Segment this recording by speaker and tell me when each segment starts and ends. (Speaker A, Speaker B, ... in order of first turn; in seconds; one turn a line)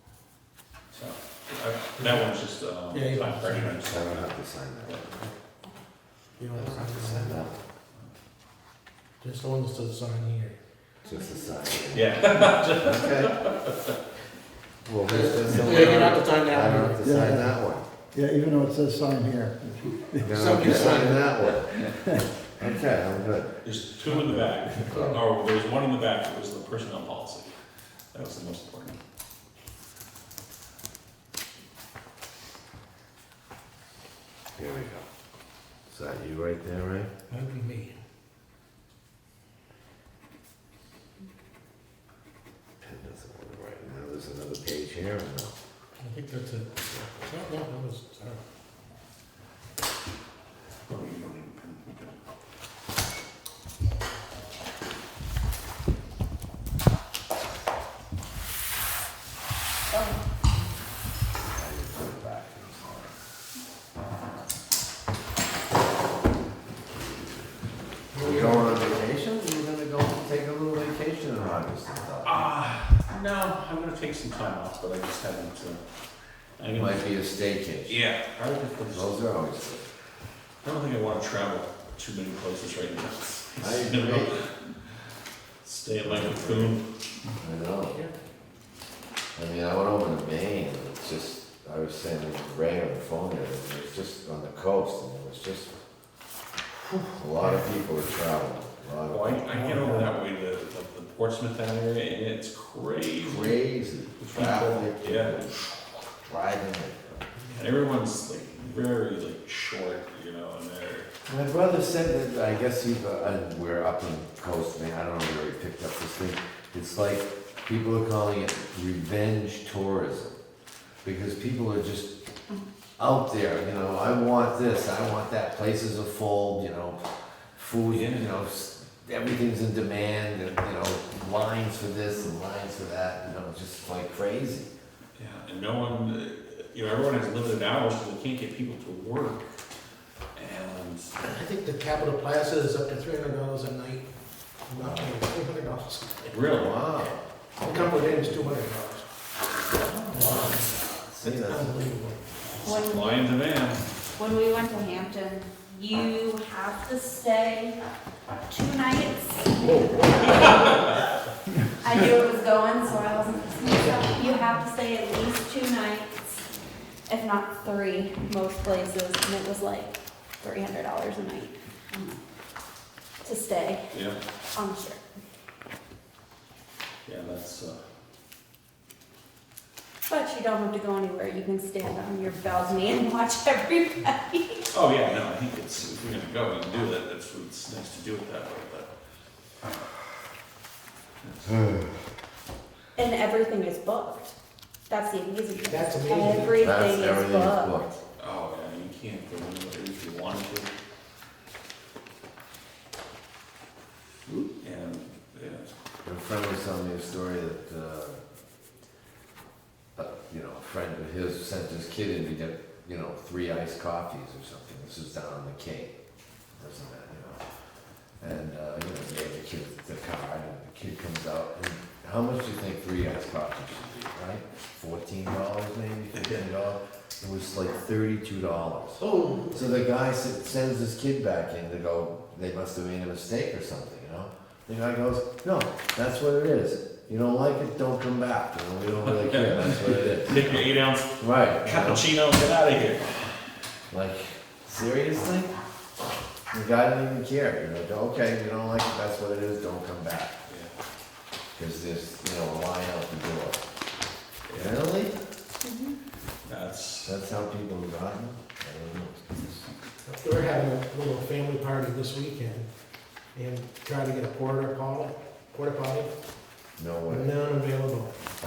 Speaker A: 0.9-4.3
Speaker B: 2.9-3.8
Speaker C: 3.9-5.3
Speaker A: 4.9-5.3
Speaker B: 6.4-7.4
Speaker C: 6.6-7.6
Speaker B: 9.2-10.6
Speaker C: 11.1-12.2
Speaker A: 11.9-14.0
Speaker C: 12.7-13.4
Speaker C: 14.8-17.9
Speaker B: 15.1-17.0
Speaker D: 17.0-17.5
Speaker D: 18.1-21.1
Speaker C: 20.2-21.9
Speaker B: 20.3-21.2
Speaker D: 21.8-22.2
Speaker C: 22.5-23.6
Speaker A: 23.6-27.6
Speaker C: 24.9-25.1
Speaker A: 28.1-29.0
Speaker C: 34.6-35.1
Speaker C: 35.9-37.1
Speaker B: 37.3-38.0
Speaker C: 42.8-45.6
Speaker B: 46.0-48.4
Speaker C: 46.9-47.3
Speaker A: 50.9-52.1
Speaker E: 59.9-60.2
Speaker C: 61.4-63.1
Speaker B: 68.1-69.0
Speaker C: 68.2-72.5
Speaker A: 72.2-75.8
Speaker A: 76.6-77.0
Speaker C: 76.7-78.0
Speaker A: 77.9-79.2
Speaker C: 78.9-79.9
Speaker A: 80.6-84.6
Speaker C: 83.6-84.4
Speaker A: 85.6-86.8
Speaker C: 86.0-86.8
Speaker C: 87.4-88.0
Speaker C: 89.3-95.8
Speaker C: 96.8-100.0
Speaker A: 99.1-103.6
Speaker C: 103.2-105.7
Speaker A: 104.2-105.4
Speaker C: 106.3-107.3
Speaker A: 107.5-111.1
Speaker C: 111.3-120.4
Speaker C: 121.0-122.2
Speaker C: 123.0-134.7
Speaker A: 127.9-128.4
Speaker A: 135.2-139.5
Speaker A: 140.3-141.1
Speaker B: 141.2-144.1
Speaker B: 144.7-146.4
Speaker C: 144.8-145.1
Speaker A: 146.3-146.9
Speaker C: 146.5-147.2
Speaker B: 147.6-149.1
Speaker C: 147.7-148.4
Speaker C: 150.1-151.9
Speaker B: 150.2-150.6
Speaker B: 151.3-152.2
Speaker E: 152.6-153.2
Speaker A: 152.7-153.9
Speaker E: 154.2-157.8
Speaker E: 158.5-160.8
Speaker A: 160.4-160.8
Speaker E: 161.8-166.4
Speaker E: 167.1-172.2
Speaker E: 173.2-173.8
Speaker A: 173.9-174.2
Speaker E: 174.5-175.0
Speaker A: 177.1-177.8
Speaker E: 180.1-184.7
Speaker A: 184.7-188.9
Speaker A: 191.2-191.6
Speaker C: 191.5-191.8
Speaker E: 193.0-194.3
Speaker E: 194.9-197.8
Speaker B: 195.6-196.7
Speaker C: 196.6-198.0
Speaker A: 198.2-200.7
Speaker A: 204.3-205.7
Speaker C: 206.0-208.2
Speaker C: 210.0-215.9
Speaker C: 216.6-217.4
Speaker C: 218.2-242.0
Speaker A: 226.1-226.4
Speaker B: 229.0-229.7
Speaker A: 239.0-243.2
Speaker C: 243.9-245.6
Speaker C: 246.5-250.4
Speaker A: 250.5-250.7
Speaker C: 251.5-253.6
Speaker A: 254.5-254.8
Speaker C: 254.5-255.2
Speaker E: 255.6-256.0
Speaker A: 256.4-257.1
Speaker C: 257.0-259.7
Speaker B: 260.1-262.7
Speaker B: 263.4-266.1
Speaker C: 266.8-267.4
Speaker B: 267.1-268.2